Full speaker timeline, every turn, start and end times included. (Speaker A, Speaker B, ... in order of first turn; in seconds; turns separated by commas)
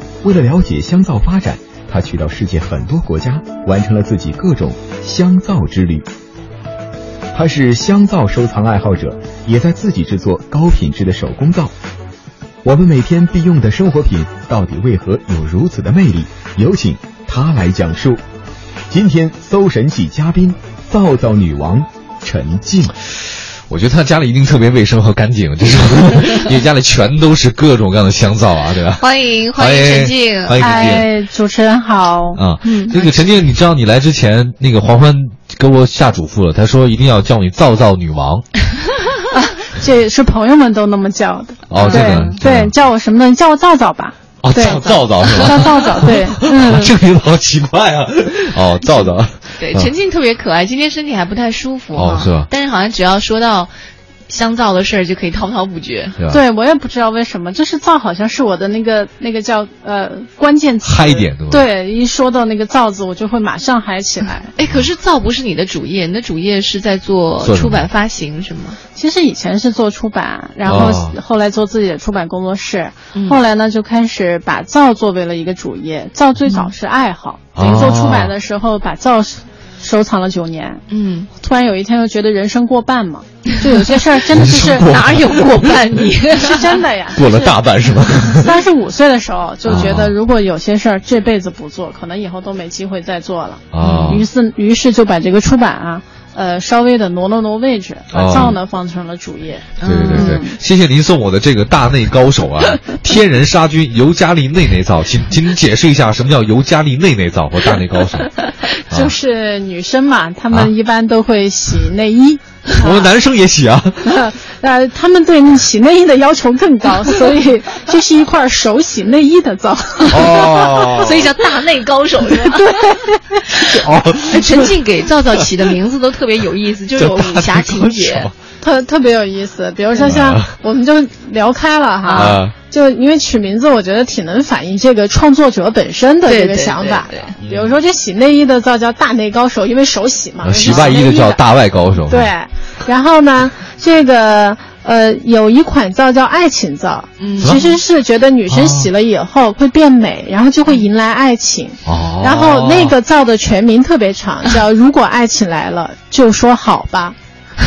Speaker A: 0.2-6.1, Speaker A: 7.3-11.7, Speaker A: 12.6-18.2, Speaker A: 18.9-22.9, Speaker B: 23.7-31.1, Speaker C: 29.0-31.1, Speaker D: 30.6-33.3, Speaker B: 32.4-38.5, Speaker D: 39.3-46.9, Speaker B: 41.7-42.7, Speaker C: 41.8-42.4, Speaker B: 44.4-49.9, Speaker C: 44.6-45.8, Speaker D: 48.9-49.1, Speaker C: 49.6-53.7, Speaker B: 51.9-52.5, Speaker C: 54.3-56.2, Speaker B: 56.2-56.4, Speaker D: 56.3-64.5, Speaker B: 60.8-61.7, Speaker C: 64.6-68.8, Speaker B: 67.4-67.9, Speaker D: 68.9-80.8, Speaker B: 70.7-71.2, Speaker C: 73.1-73.4, Speaker C: 76.5-76.7, Speaker B: 77.5-78.3, Speaker C: 80.9-81.3, Speaker D: 81.4-84.9, Speaker B: 84.3-85.8, Speaker C: 84.8-86.8, Speaker D: 86.3-87.6, Speaker B: 87.1-88.5, Speaker D: 88.3-100.6, Speaker B: 89.7-90.1, Speaker B: 93.7-94.3, Speaker C: 93.8-94.2, Speaker B: 98.1-98.6, Speaker C: 99.8-100.4, Speaker B: 99.8-108.3, Speaker B: 108.9-109.1, Speaker D: 108.9-113.1, Speaker B: 112.8-114.1, Speaker D: 114.0-120.9, Speaker B: 120.1-121.3, Speaker C: 120.4-122.7, Speaker D: 122.3-123.5, Speaker B: 123.6-124.7, Speaker C: 124.3-128.3, Speaker B: 127.0-128.3, Speaker D: 128.6-141.4, Speaker B: 130.0-130.5, Speaker C: 132.1-132.4, Speaker B: 132.1-132.5, Speaker C: 136.2-137.3, Speaker B: 137.4-137.7, Speaker B: 140.4-142.3, Speaker C: 140.6-140.9, Speaker D: 142.0-157.2, Speaker C: 147.2-147.7, Speaker B: 147.4-147.8, Speaker B: 148.5-148.9, Speaker B: 151.8-153.0